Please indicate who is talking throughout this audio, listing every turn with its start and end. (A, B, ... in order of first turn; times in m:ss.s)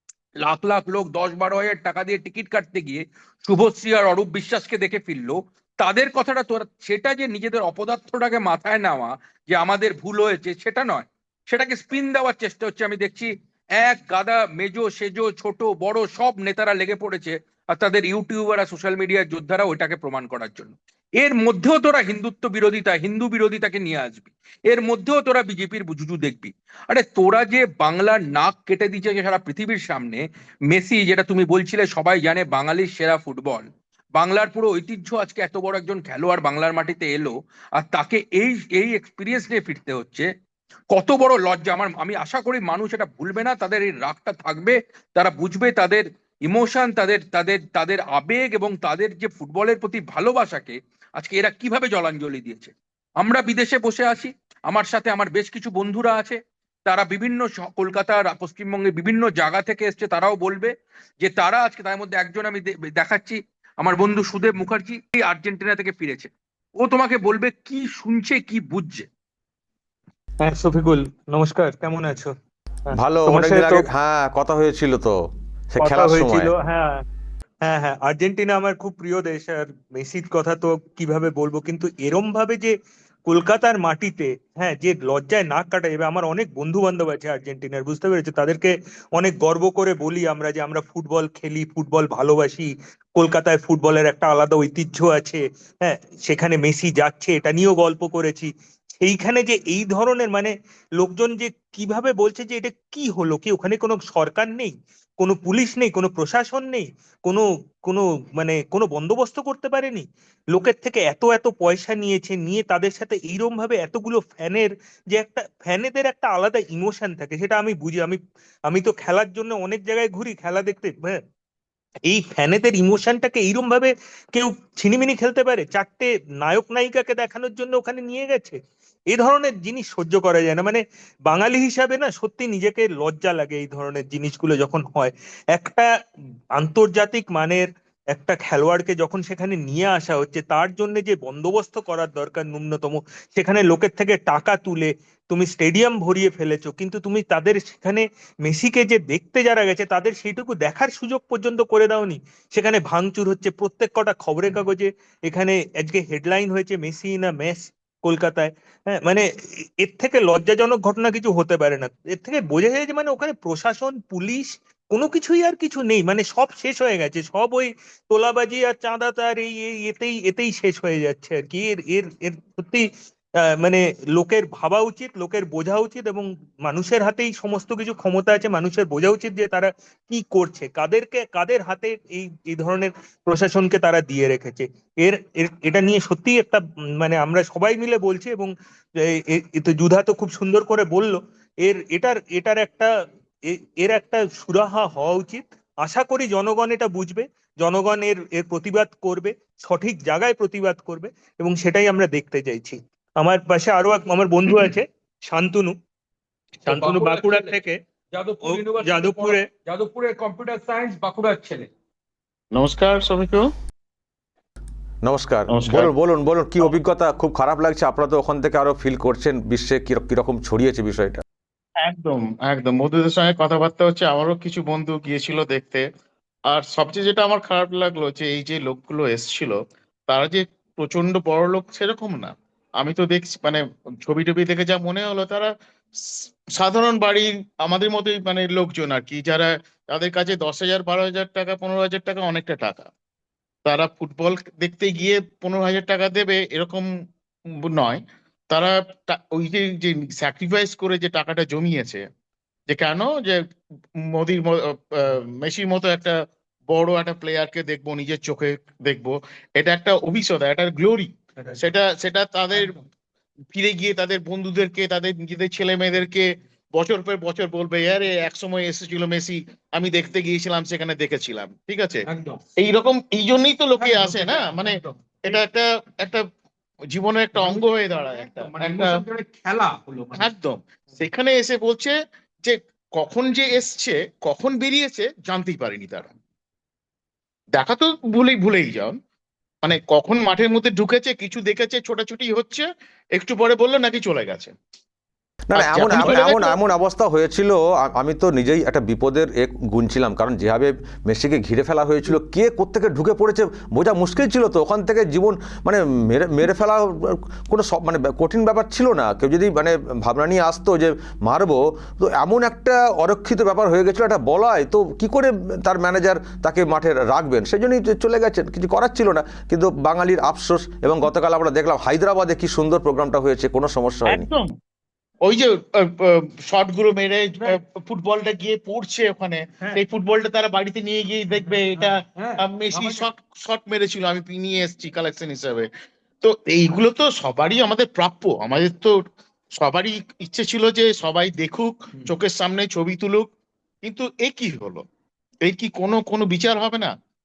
0:00.4-0:40.3 A
0:40.9-1:06.3 A
1:06.8-1:09.1 A
1:10.4-1:12.3 B
1:12.9-1:13.8 B
1:12.9-1:16.5 C
1:15.8-1:17.0 B
1:17.6-2:01.2 B
2:02.1-2:15.9 B
2:16.6-2:52.9 B
2:53.6-3:08.5 B
3:09.0-3:12.9 B
3:13.5-3:25.8 B
3:26.6-3:27.8 B
3:26.6-3:27.6 A
3:28.1-3:31.7 A
3:28.4-3:29.5 B
3:32.5-3:33.5 D
3:35.0-3:41.2 C
3:35.5-3:35.9 D
3:41.8-3:45.8 D
3:46.5-3:49.6 D
3:50.1-3:55.5 D
3:56.2-4:02.9 D
4:03.6-4:06.9 D
4:07.6-4:12.0 D
4:12.7-4:13.4 D
4:14.0-4:22.8 D
4:23.5-4:32.0 D
4:32.1-4:32.4 A
4:32.6-4:36.2 D
4:33.8-4:34.9 A
4:36.9-4:38.9 D
4:37.3-4:40.3 A
4:40.2-4:46.1 D
4:47.5-4:49.0 D
4:49.6-4:52.6 D
4:53.2-4:54.5 D
4:55.5-5:24.3 C
4:55.5-4:56.6 D
5:24.1-5:24.5 D
5:25.2-5:35.7 D
5:31.4-5:33.0 A
5:36.2-5:39.0 D
5:39.6-5:43.3 D
5:43.8-5:44.8 D
5:45.4-5:46.9 D